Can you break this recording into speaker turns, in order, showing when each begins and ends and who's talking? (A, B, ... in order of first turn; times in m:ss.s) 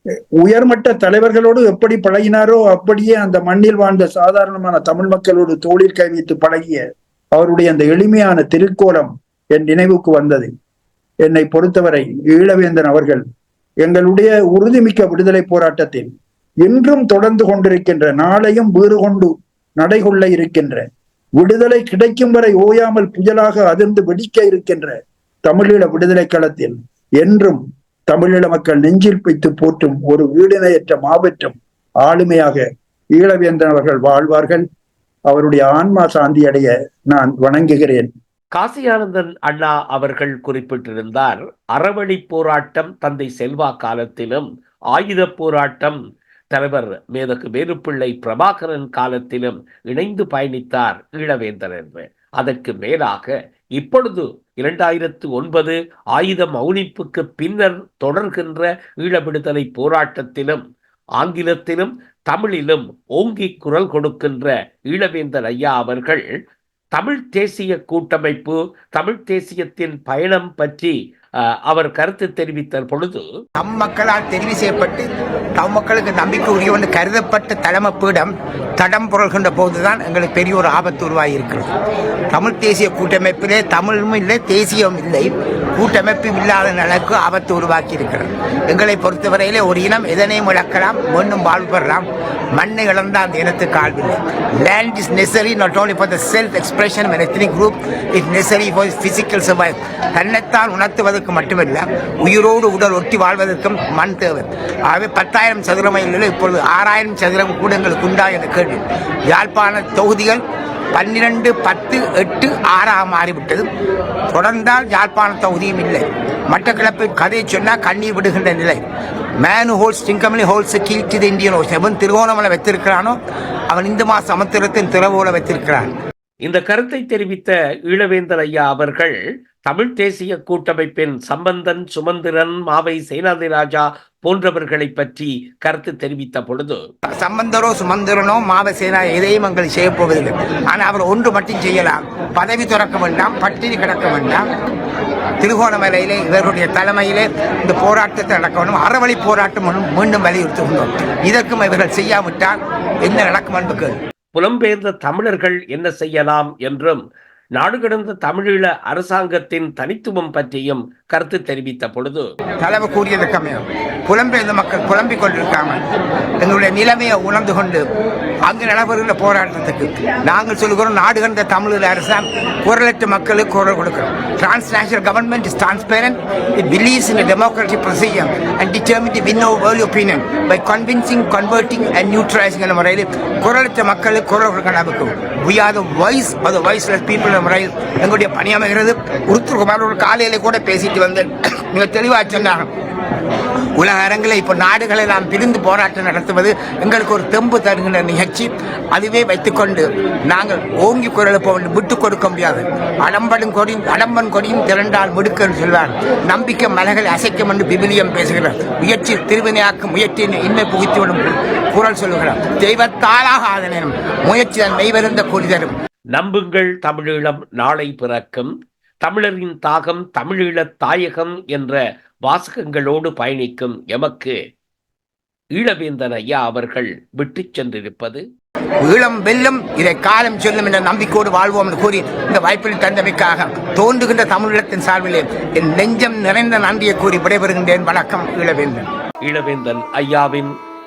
0:00.4-0:06.8 A
0:07.3-0:10.5 A
0:11.2-0:13.2 A
0:13.8-0:16.1 A
0:16.6-0:20.8 A
0:21.4-0:32.6 A
0:33.1-0:34.6 A
0:35.3-0:38.1 A
0:38.5-0:46.0 B
0:46.5-1:00.6 B
1:01.2-1:06.2 B
1:06.9-1:10.9 B
1:11.7-1:13.2 B
1:13.6-1:21.7 C
1:22.3-1:50.4 C
1:50.9-1:53.7 C
1:54.3-1:58.8 C
1:59.4-2:05.9 C
2:06.4-2:16.8 B
2:17.1-2:24.4 C
2:25.4-2:34.0 C
2:34.3-2:37.0 B
2:37.6-2:42.3 B
2:42.6-2:45.8 C
2:46.4-2:47.8 C
2:48.4-3:12.7 C
3:13.8-3:35.8 C
3:36.1-3:38.5 B
3:39.0-3:44.4 B
3:45.6-3:48.2 B
3:48.8-3:58.9 C
3:59.2-4:00.5 B